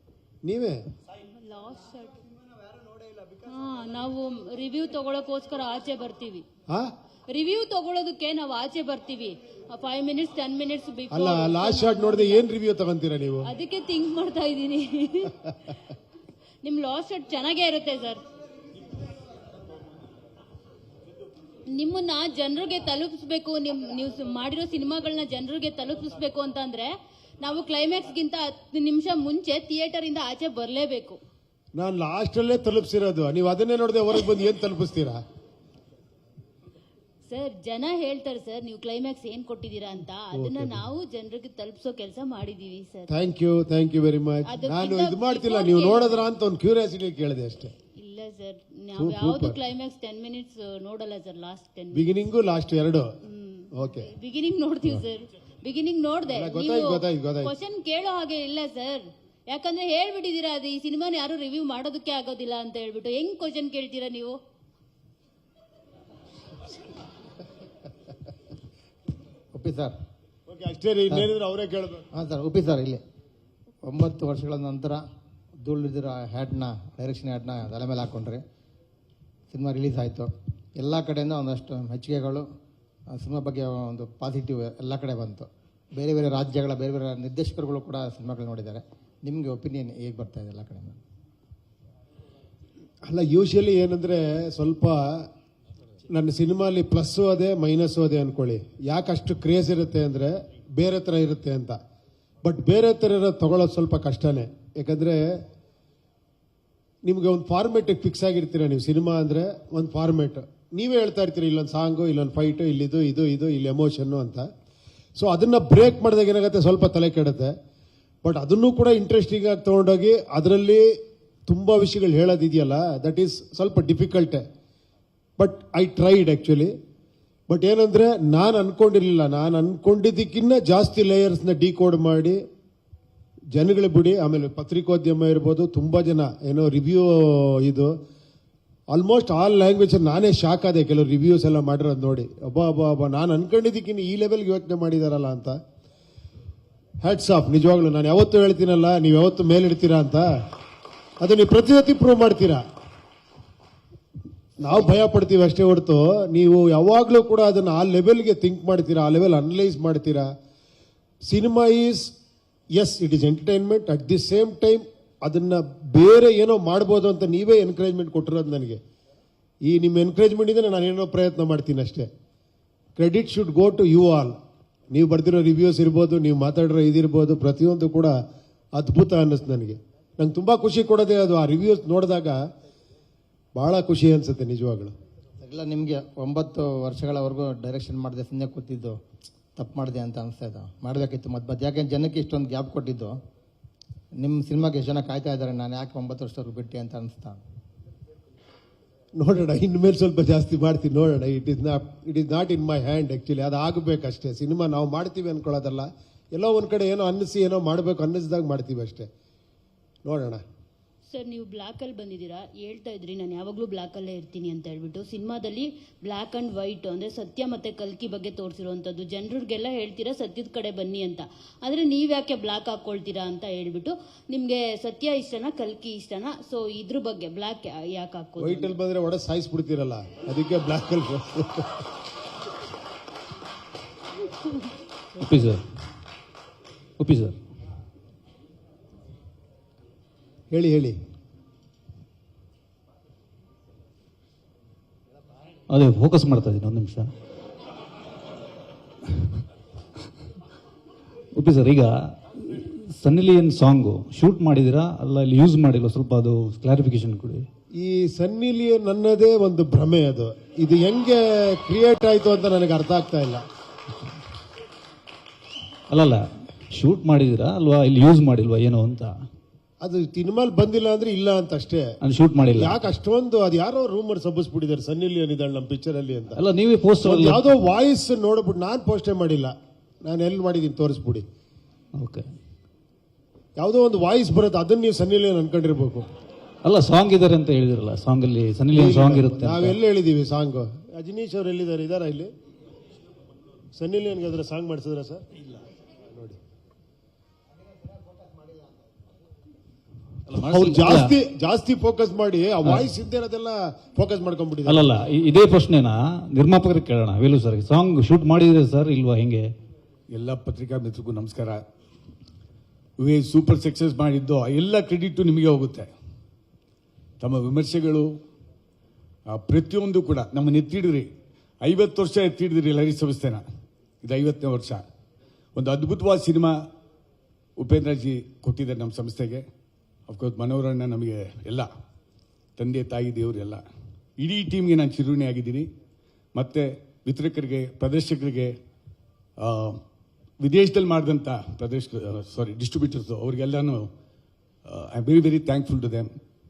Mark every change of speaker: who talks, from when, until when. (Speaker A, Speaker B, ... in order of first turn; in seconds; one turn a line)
Speaker A: 0.5-0.8
Speaker B: 1.5-2.2
Speaker B: 3.4-6.5
Speaker B: 7.3-12.4
Speaker A: 11.1-13.5
Speaker B: 13.5-15.4
Speaker B: 16.6-18.2
Speaker B: 21.7-31.2
Speaker A: 31.8-35.2
Speaker B: 37.3-43.1
Speaker A: 40.3-40.8
Speaker A: 43.1-47.7
Speaker B: 44.5-46.3
Speaker B: 48.0-52.1
Speaker A: 49.0-49.5
Speaker A: 51.9-53.1
Speaker B: 53.2-64.4
Speaker A: 53.8-54.1
Speaker A: 56.3-57.5
Speaker C: 69.5-69.9
Speaker A: 70.5-72.1
Speaker C: 72.1-73.0
Speaker C: 73.9-75.0
Speaker C: 75.6-78.4
Speaker C: 79.5-82.5
Speaker C: 83.1-91.0
Speaker A: 93.1-95.3
Speaker A: 96.1-101.8
Speaker A: 102.4-105.4
Speaker A: 107.1-114.5
Speaker A: 115.2-117.5
Speaker A: 118.2-121.0
Speaker A: 121.5-124.4
Speaker A: 125.4-126.7
Speaker A: 127.5-132.4
Speaker A: 133.5-137.9
Speaker A: 138.9-145.6
Speaker A: 147.0-150.3
Speaker A: 151.2-152.6
Speaker A: 154.6-160.3
Speaker A: 161.3-162.1
Speaker A: 162.8-168.8
Speaker A: 169.7-172.1
Speaker A: 173.0-174.4
Speaker A: 174.9-178.2
Speaker A: 178.8-182.4
Speaker A: 183.6-184.9
Speaker C: 185.4-189.0
Speaker C: 189.6-193.2
Speaker C: 194.2-197.4
Speaker A: 199.2-209.1
Speaker A: 210.1-210.4
Speaker B: 211.1-228.8
Speaker A: 228.4-231.8
Speaker D: 235.2-235.6
Speaker D: 237.0-237.4
Speaker A: 240.5-241.0
Speaker D: 245.7-247.1
Speaker D: 251.4-257.5
Speaker A: 257.8-263.4
Speaker D: 265.9-269.1
Speaker A: 269.8-271.9
Speaker D: 272.0-272.8
Speaker A: 272.6-276.4
Speaker D: 276.4-277.5
Speaker A: 277.0-279.5
Speaker A: 280.1-281.2
Speaker D: 282.0-282.3
Speaker A: 283.6-286.1
Speaker D: 286.6-289.8
Speaker A: 288.7-292.3
Speaker A: 293.8-295.2
Speaker A: 296.1-296.4
Speaker D: 300.3-301.1
Speaker A: 300.4-304.9
Speaker D: 302.6-302.9
Speaker D: 304.7-309.4
Speaker E: 310.1-311.6
Speaker E: 313.0-315.9
Speaker E: 317.2-318.1
Speaker E: 319.3-321.1
Speaker E: 321.6-323.4
Speaker E: 324.0-324.8
Speaker E: 325.6-326.6
Speaker E: 327.6-329.4
Speaker E: 330.1-331.7
Speaker E: 332.6-333.6
Speaker E: 334.2-335.7
Speaker E: 336.4-338.5
Speaker E: 339.4-339.8
Speaker E: 340.4-343.9
Speaker E: 344.7-346.1